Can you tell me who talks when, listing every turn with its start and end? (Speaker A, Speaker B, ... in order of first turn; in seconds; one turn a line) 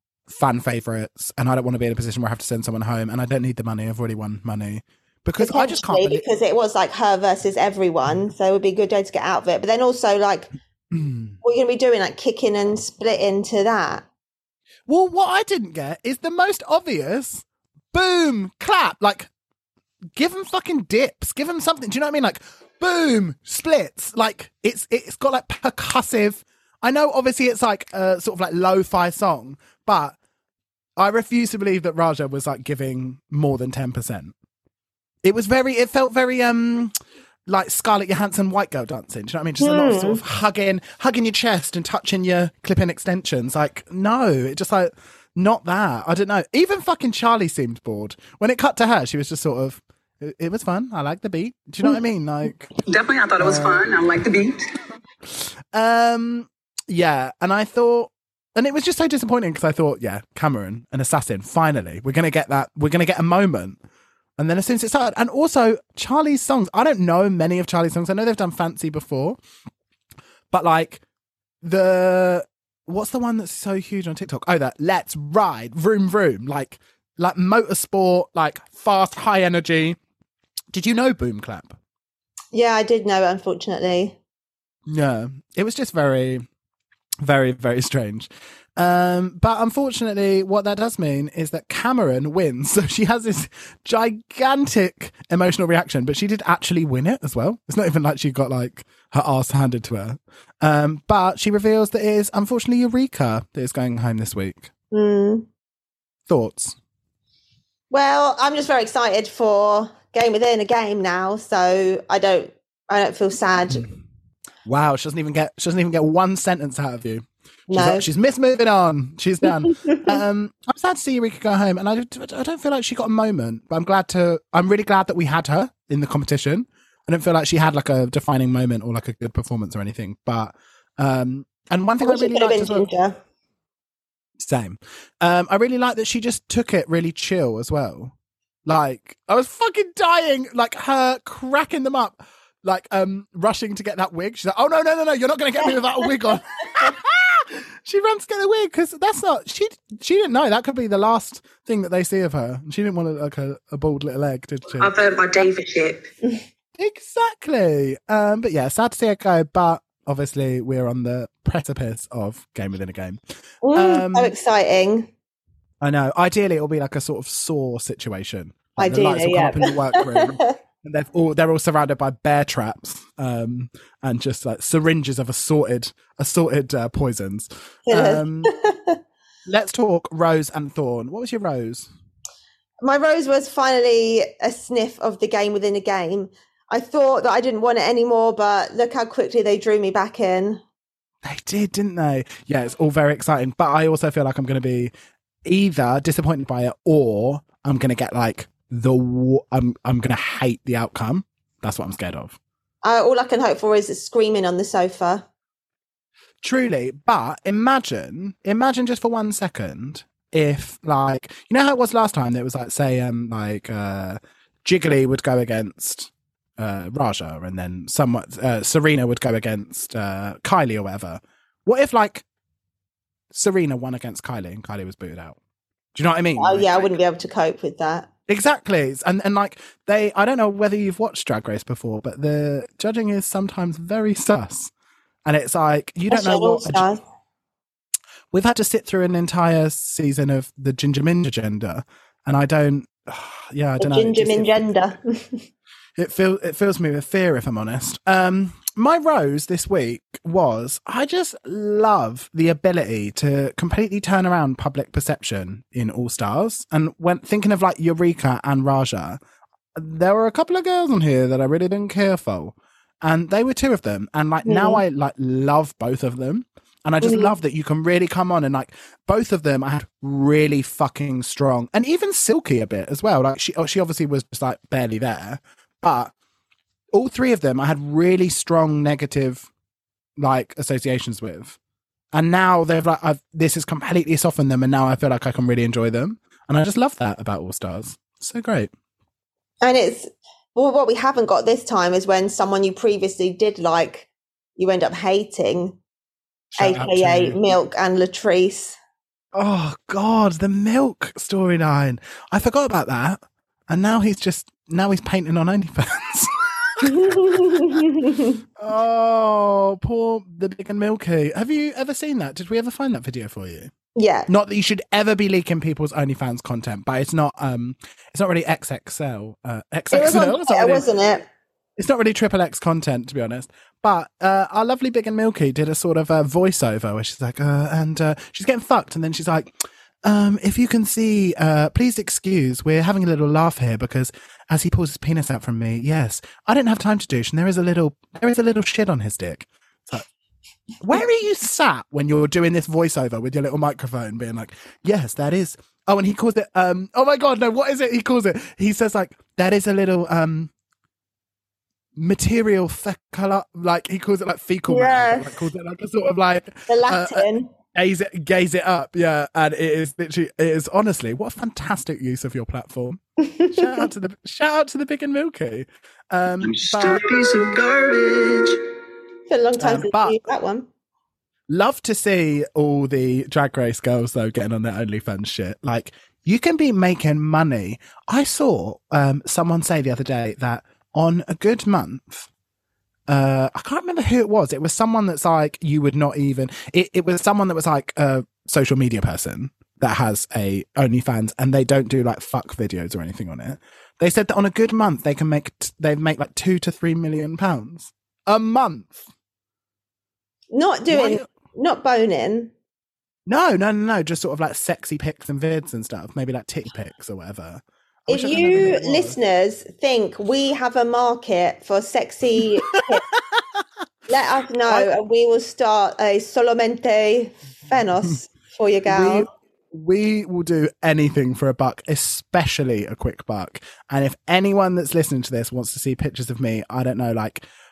Speaker A: 0.3-6.2
Speaker B: 5.4-10.5
Speaker A: 10.9-11.4
Speaker B: 11.4-14.1
Speaker A: 14.9-19.3
Speaker A: 20.1-30.2
Speaker A: 31.0-34.3
Speaker A: 35.2-36.9
Speaker A: 37.5-52.7
Speaker B: 39.6-40.2
Speaker C: 52.9-54.6
Speaker A: 53.4-53.8
Speaker A: 55.7-63.8
Speaker A: 64.4-69.4
Speaker A: 70.5-71.0
Speaker A: 71.6-80.0
Speaker A: 80.7-81.8
Speaker B: 82.5-84.2
Speaker A: 84.9-86.4
Speaker A: 87.2-104.7
Speaker B: 104.9-105.5
Speaker A: 106.3-106.8
Speaker B: 107.9-113.8
Speaker A: 114.6-132.9
Speaker B: 117.7-118.0
Speaker B: 119.6-120.2
Speaker B: 132.0-133.2
Speaker A: 134.4-138.1
Speaker A: 138.7-154.9
Speaker C: 154.8-156.1
Speaker A: 156.8-163.2
Speaker B: 163.6-165.1
Speaker A: 163.7-164.3
Speaker A: 165.8-178.5
Speaker B: 168.8-170.5
Speaker B: 177.9-179.0
Speaker A: 179.5-181.9
Speaker B: 182.8-190.6
Speaker A: 191.2-194.9
Speaker A: 195.4-202.4
Speaker B: 202.8-205.2
Speaker A: 206.4-222.2
Speaker A: 223.3-225.4
Speaker A: 225.9-226.9
Speaker B: 226.4-228.1
Speaker A: 228.3-234.7
Speaker A: 235.2-236.8
Speaker B: 236.1-237.0
Speaker A: 238.3-244.7
Speaker B: 243.8-245.4
Speaker A: 246.0-259.2
Speaker A: 259.7-276.1
Speaker B: 264.4-264.8
Speaker B: 267.0-267.3
Speaker A: 276.9-279.5
Speaker A: 280.2-281.6
Speaker A: 282.1-288.7
Speaker B: 289.6-295.8
Speaker A: 296.6-297.4
Speaker B: 296.6-298.8
Speaker A: 299.3-307.8
Speaker B: 306.8-308.4
Speaker A: 308.6-313.7
Speaker B: 313.9-314.3
Speaker A: 314.3-320.8
Speaker B: 319.9-321.2
Speaker A: 321.8-329.5
Speaker A: 330.0-340.1
Speaker A: 340.8-350.5
Speaker A: 351.9-363.0
Speaker B: 354.7-355.4
Speaker B: 356.7-357.5
Speaker B: 363.2-363.8
Speaker A: 363.5-367.0
Speaker C: 366.4-368.6
Speaker B: 369.3-370.7
Speaker A: 369.6-370.2
Speaker A: 371.5-382.3
Speaker A: 383.1-399.1
Speaker B: 400.5-402.5
Speaker A: 400.9-401.3
Speaker A: 403.3-409.2
Speaker B: 408.1-413.0
Speaker A: 412.7-413.6
Speaker B: 414.1-419.3
Speaker A: 418.9-427.4